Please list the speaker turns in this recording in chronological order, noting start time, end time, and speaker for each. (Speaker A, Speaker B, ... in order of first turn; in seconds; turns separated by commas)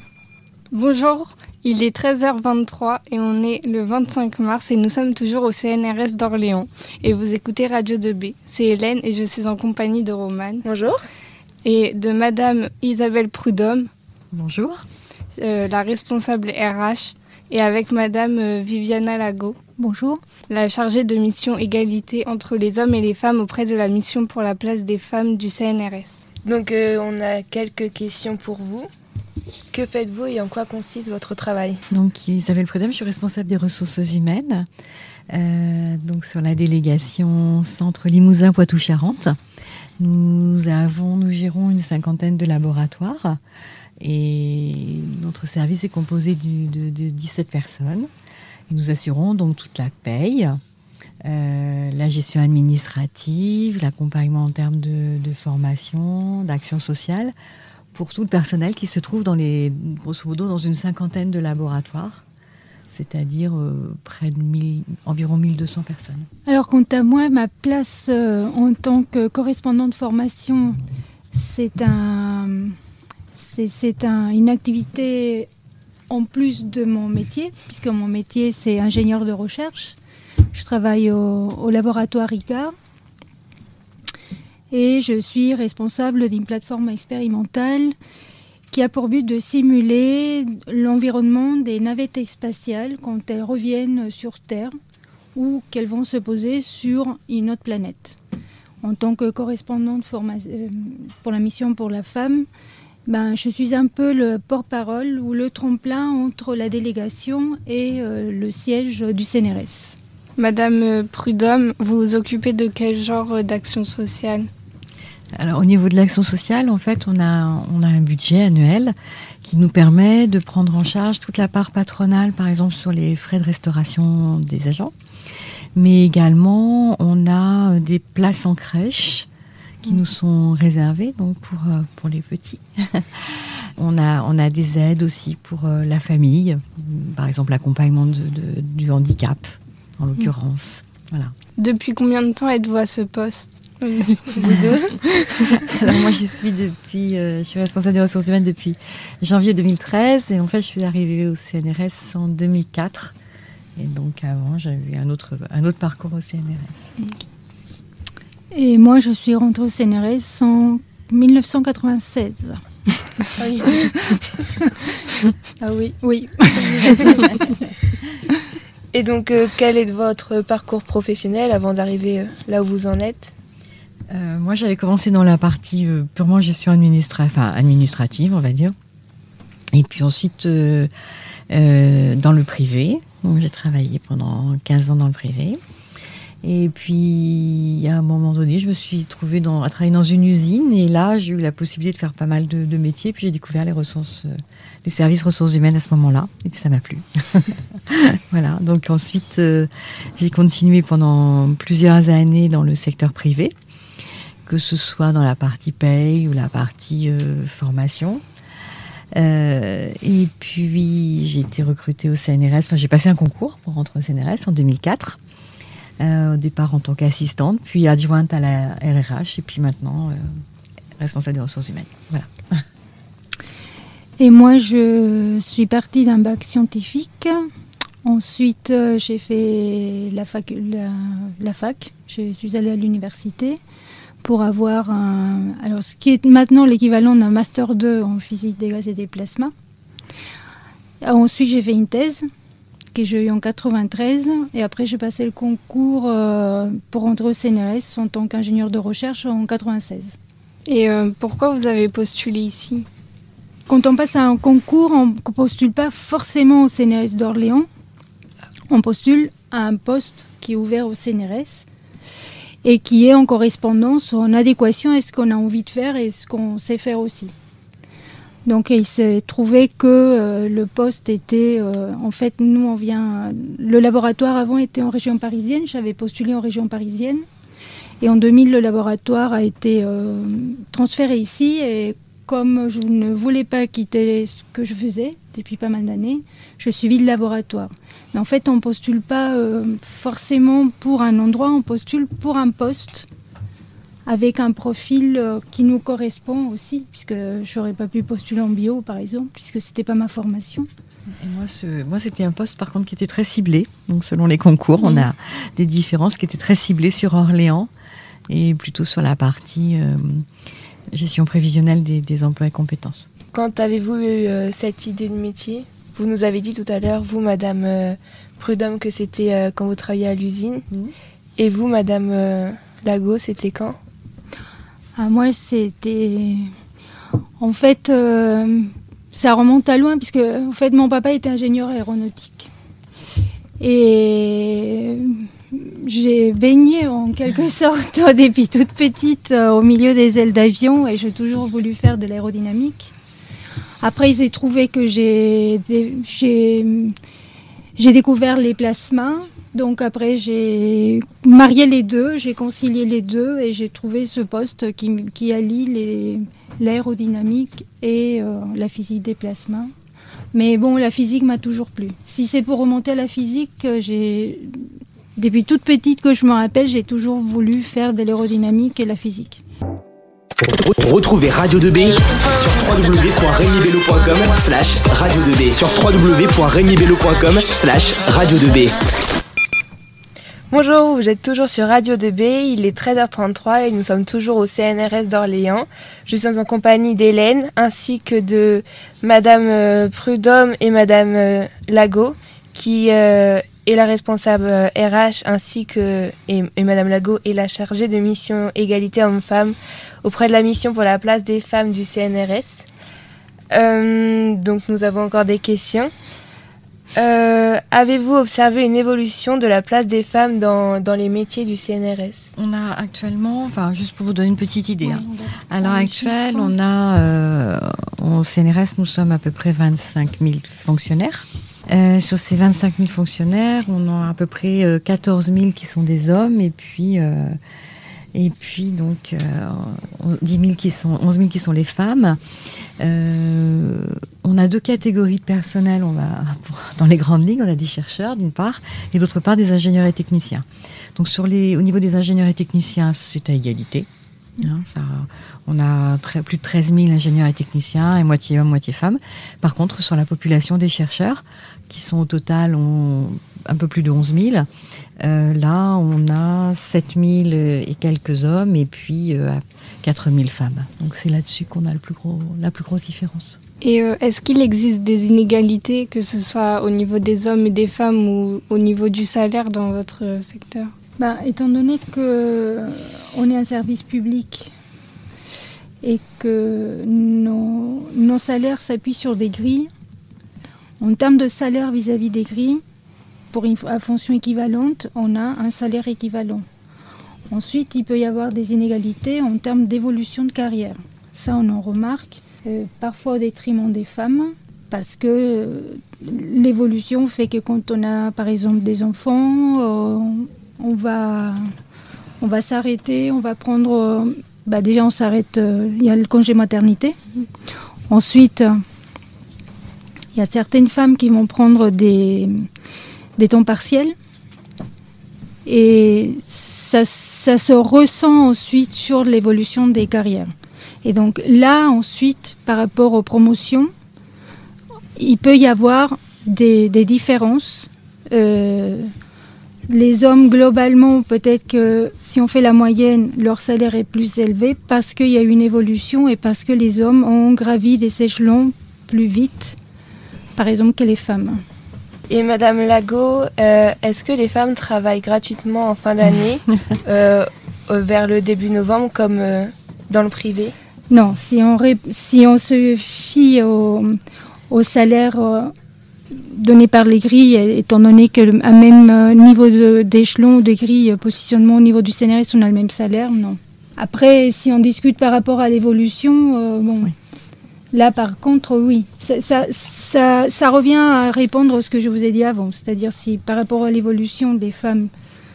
Speaker A: 0.7-10.6, Speaker B: 10.6-11.0, Speaker A: 11.6-13.9, Speaker C: 14.3-14.8, Speaker A: 15.4-19.6, Speaker D: 19.8-20.2, Speaker A: 20.5-26.2, Speaker B: 26.4-28.9, Speaker B: 29.7-31.8, Speaker C: 31.9-34.7, Speaker C: 35.3-39.4, Speaker C: 40.0-43.4, Speaker C: 44.0-48.1, Speaker C: 48.7-50.6, Speaker C: 51.2-57.3, Speaker C: 57.9-62.2, Speaker C: 62.9-66.3, Speaker D: 66.4-70.8, Speaker D: 71.3-72.8, Speaker D: 73.3-75.5, Speaker D: 76.1-80.0, Speaker D: 80.5-82.7, Speaker D: 84.7-87.9, Speaker D: 88.7-94.7, Speaker D: 95.3-98.2, Speaker D: 98.8-102.5, Speaker D: 103.0-110.0, Speaker A: 110.4-114.5, Speaker C: 115.4-124.9, Speaker C: 125.8-129.3, Speaker C: 129.8-141.3, Speaker A: 141.6-145.6, Speaker C: 145.5-153.1, Speaker C: 153.8-156.9, Speaker D: 158.5-167.3, Speaker B: 168.9-173.3, Speaker C: 174.1-178.7, Speaker C: 179.7-180.9, Speaker C: 181.5-185.6, Speaker C: 186.4-203.5, Speaker C: 204.4-208.2, Speaker C: 209.1-215.2, Speaker C: 216.0-220.2, Speaker C: 221.0-222.3, Speaker D: 224.2-227.5, Speaker D: 228.0-233.6, Speaker D: 234.2-239.5, Speaker D: 241.0-242.2, Speaker D: 242.9-250.1, Speaker A: 250.7-252.8, Speaker D: 253.7-257.7, Speaker D: 258.7-261.6, Speaker D: 262.6-267.3, Speaker D: 268.4-277.2, Speaker D: 278.0-293.1, Speaker D: 294.1-300.7, Speaker C: 301.2-307.7, Speaker C: 308.3-310.2, Speaker C: 310.9-313.1, Speaker B: 313.3-320.6, Speaker B: 321.4-323.8, Speaker D: 324.9-326.5, Speaker D: 327.4-332.5, Speaker D: 333.6-342.9, Speaker D: 343.8-346.9, Speaker D: 347.8-359.7, Speaker D: 360.3-369.4, Speaker E: 370.6-378.8, Speaker B: 380.5-402.6, Speaker B: 403.5-405.9, Speaker B: 406.9-412.3, Speaker C: 412.4-427.4, Speaker D: 414.8-416.5, Speaker C: 428.1-432.2, Speaker C: 432.8-440.4, Speaker C: 440.9-443.9, Speaker C: 444.4-454.5, Speaker C: 455.0-463.4, Speaker A: 463.6-470.7, Speaker D: 471.0-474.5, Speaker D: 475.8-479.7, Speaker D: 480.8-482.6, Speaker D: 483.3-486.4, Speaker D: 487.3-501.5, Speaker D: 502.2-507.0, Speaker D: 507.9-508.6, Speaker D: 510.1-512.5, Speaker D: 513.2-513.9, Speaker D: 515.4-520.3, Speaker D: 520.8-523.7, Speaker D: 525.0-528.9, Speaker D: 529.7-539.6, Speaker D: 540.4-541.4, Speaker B: 542.1-550.5, Speaker D: 550.9-555.5, Speaker D: 556.1-566.9, Speaker D: 567.7-574.9